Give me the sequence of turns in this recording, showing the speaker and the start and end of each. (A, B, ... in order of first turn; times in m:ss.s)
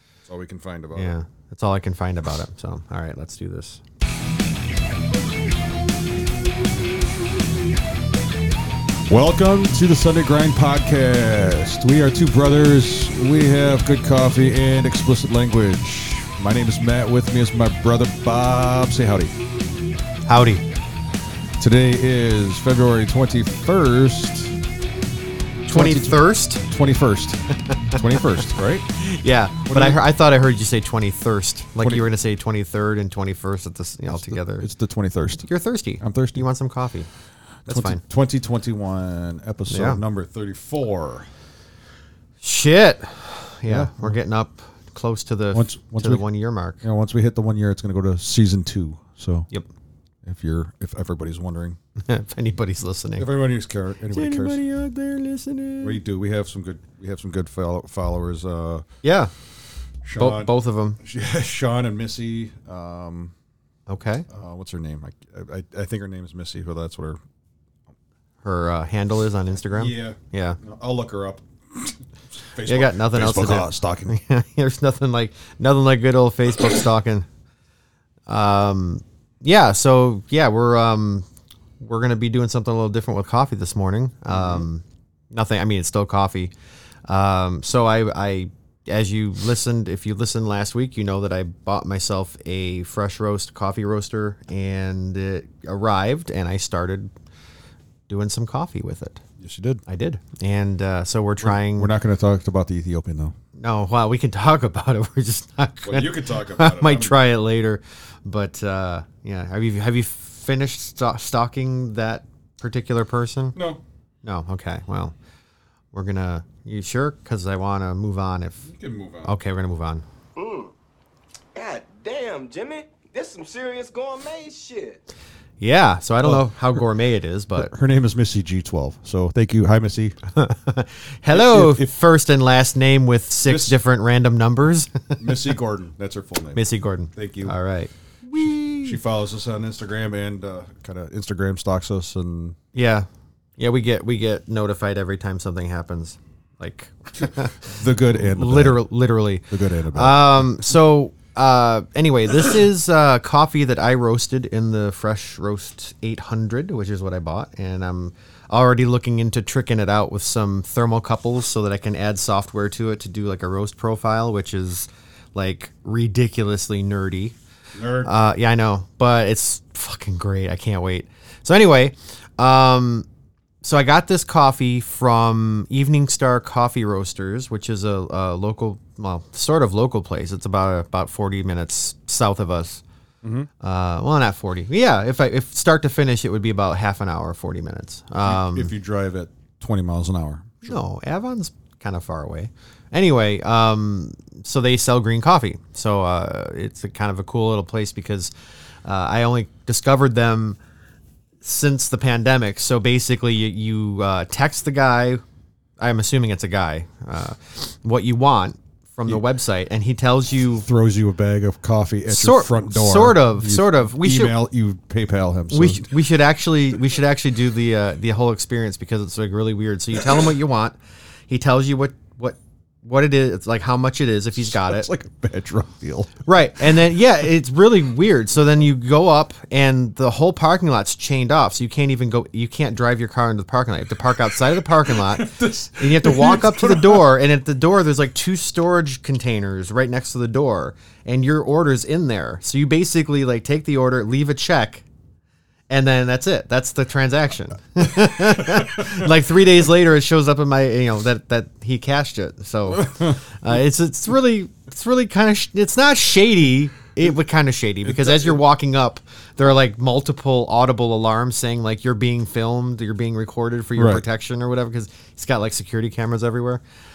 0:00.3-0:01.1 A
0:00.9-0:03.8 B
0:09.1-0:19.3 A
0:20.3-0:20.6 B
0:21.6-0:24.6 A
0:25.7-0:26.6 B
0:25.7-0:28.9 A
0:27.7-0:34.7 B
0:29.7-0:30.0 A
0:34.1-0:35.5 A
0:35.5-0:37.1 B
0:36.0-0:36.4 A
0:37.7-0:38.0 B
0:37.7-0:41.3 A
0:39.7-0:40.0 B
0:42.4-0:46.8 B
0:43.7-0:44.2 A
0:45.5-0:46.2 A
0:46.8-0:49.5 A
0:50.2-0:51.8 A
0:52.0-0:53.3 B
0:53.2-0:54.6 A
0:54.1-0:56.0 B
0:55.8-0:58.9 A
0:59.0-0:59.3 B
1:00.0-1:03.3 A
1:00.2-1:01.0 B
1:03.9-1:04.3 B
1:04.3-1:07.2 A
1:08.4-1:10.6 B
1:09.7-1:12.0 A
1:12.5-1:14.2 A
1:12.6-1:17.3 B
1:18.3-1:21.3 B
1:21.8-1:26.5 B
1:24.3-1:24.7 A
1:27.1-1:37.1 B
1:38.1-1:39.2 B
1:39.4-1:39.8 A
1:39.9-1:41.9 B
1:41.4-1:43.4 A
1:43.6-1:53.6 B
1:45.8-1:47.2 A
1:53.6-1:53.8 A
1:54.2-1:55.2 B
1:55.9-1:58.7 B
1:58.7-1:59.3 A
1:59.2-2:00.0 B
2:00.4-2:00.7 C
2:01.6-2:05.0 C
2:05.6-2:07.7 B
2:06.2-2:06.8 A
2:07.6-2:10.2 A
2:10.3-2:15.4 B
2:11.3-2:11.9 A
2:13.4-2:13.8 A
2:15.2-2:16.6 A
2:16.5-2:19.0 B
2:17.2-2:17.6 A
2:18.4-2:22.6 A
2:22.7-2:23.1 B
2:23.6-2:47.4 B
2:27.2-2:28.8 A
2:29.5-2:30.5 A
2:47.8-2:48.1 A
2:48.0-2:53.1 B
2:53.6-3:02.8 B
3:03.2-3:03.5 A
3:03.6-3:08.7 B
3:08.2-3:10.8 A
3:10.6-3:18.3 B
3:18.8-3:20.6 B
3:21.4-3:25.2 B
3:25.8-3:30.7 B
3:30.6-3:36.0 A
3:32.1-3:34.4 B
3:35.5-3:40.8 B
3:41.3-3:44.9 B
3:44.3-3:46.3 A
3:46.2-4:04.8 B
3:54.3-3:57.1 A
4:05.7-4:26.6 B
4:08.1-4:09.1 A
4:12.7-4:13.2 A
4:17.8-4:18.4 A
4:23.8-4:24.0 A